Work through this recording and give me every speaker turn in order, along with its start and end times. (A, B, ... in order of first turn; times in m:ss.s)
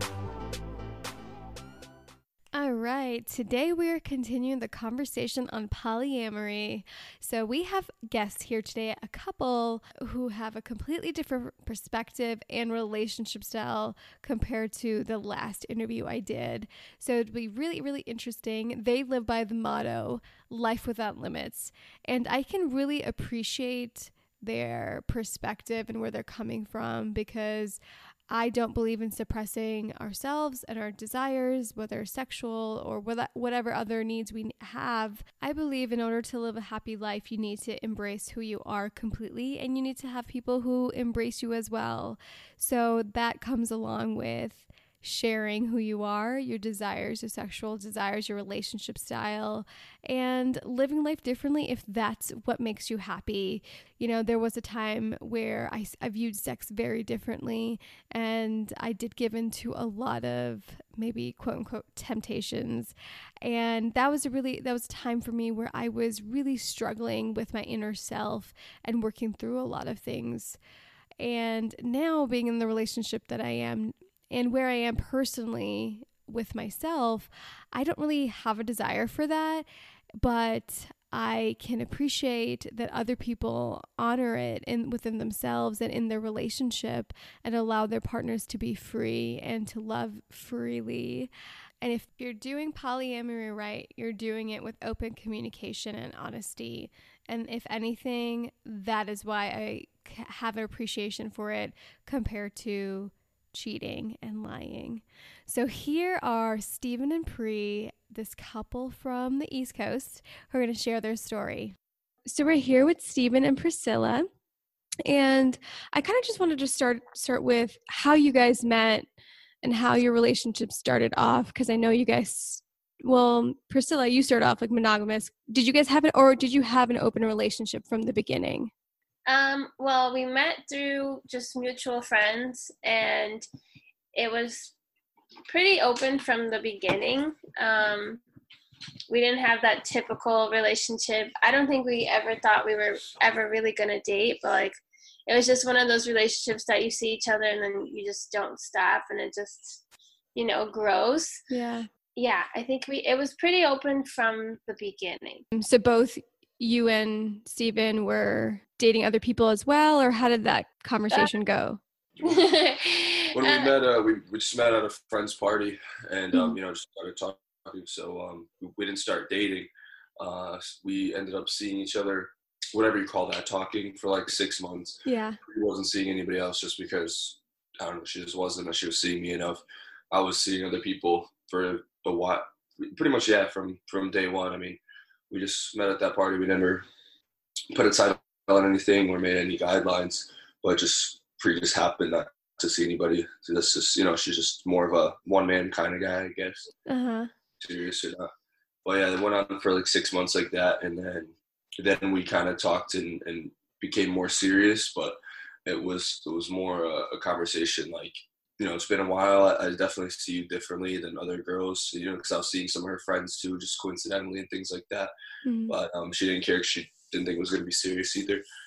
0:02.5-1:10.6 A
1:11.2-1:19.7 A
1:20.2-1:31.3 A
1:31.8-1:54.3 A
1:55.0-1:59.1 A
1:59.6-2:08.7 A
2:09.3-2:13.5 B
2:14.1-2:14.7 B
2:15.5-2:18.2 B
2:19.1-2:29.8 B
2:30.4-2:31.4 B
2:31.5-2:31.9 A
2:32.2-2:35.4 B
2:35.5-2:41.8 A
2:42.2-2:43.7 B
2:43.3-3:06.9 C
2:46.3-2:46.6 A
2:55.0-2:55.4 A
3:07.7-3:16.7 C
3:16.9-3:17.3 A
3:17.6-3:18.3 C
3:18.8-3:35.1 C
3:35.4-3:35.8 A
3:35.7-3:38.4 C